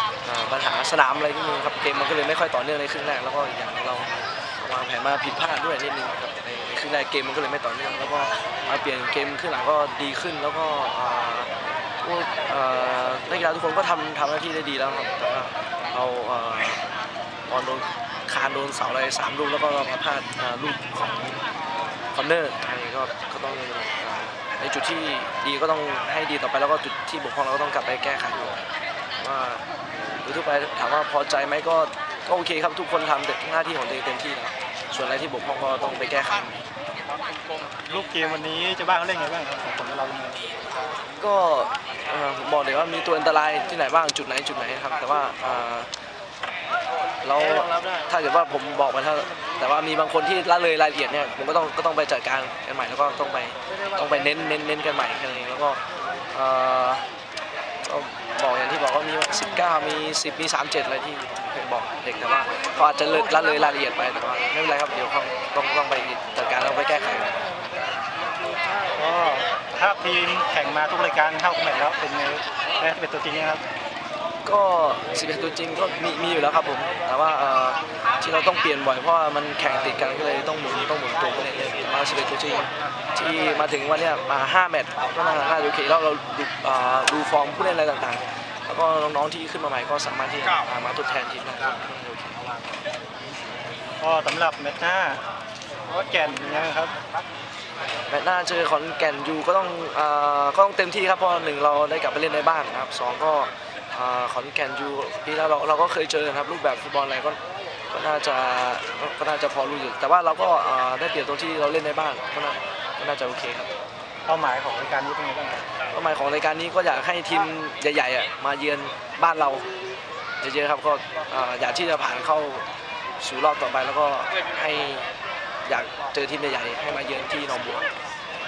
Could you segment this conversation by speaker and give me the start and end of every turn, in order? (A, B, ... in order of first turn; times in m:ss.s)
0:00.2-0:11.5 A
0:12.0-0:16.8 A
0:17.5-0:21.4 A
0:22.1-0:28.7 A
0:29.2-0:29.6 A
0:30.2-0:36.6 A
0:37.9-0:40.5 B
0:41.2-0:45.9 A
0:47.2-0:55.8 A
0:47.4-0:48.1 B
0:56.3-0:57.1 A
0:57.8-1:07.4 A
1:08.9-1:13.6 B
1:14.4-1:32.5 A
1:34.0-1:35.2 B
1:35.9-1:37.0 B
1:38.1-1:47.4 A
1:47.9-1:53.7 A
1:54.3-1:55.7 B
1:55.9-1:59.7 A
2:00.4-2:02.7 A
2:03.2-2:05.1 A
2:05.6-2:07.8 A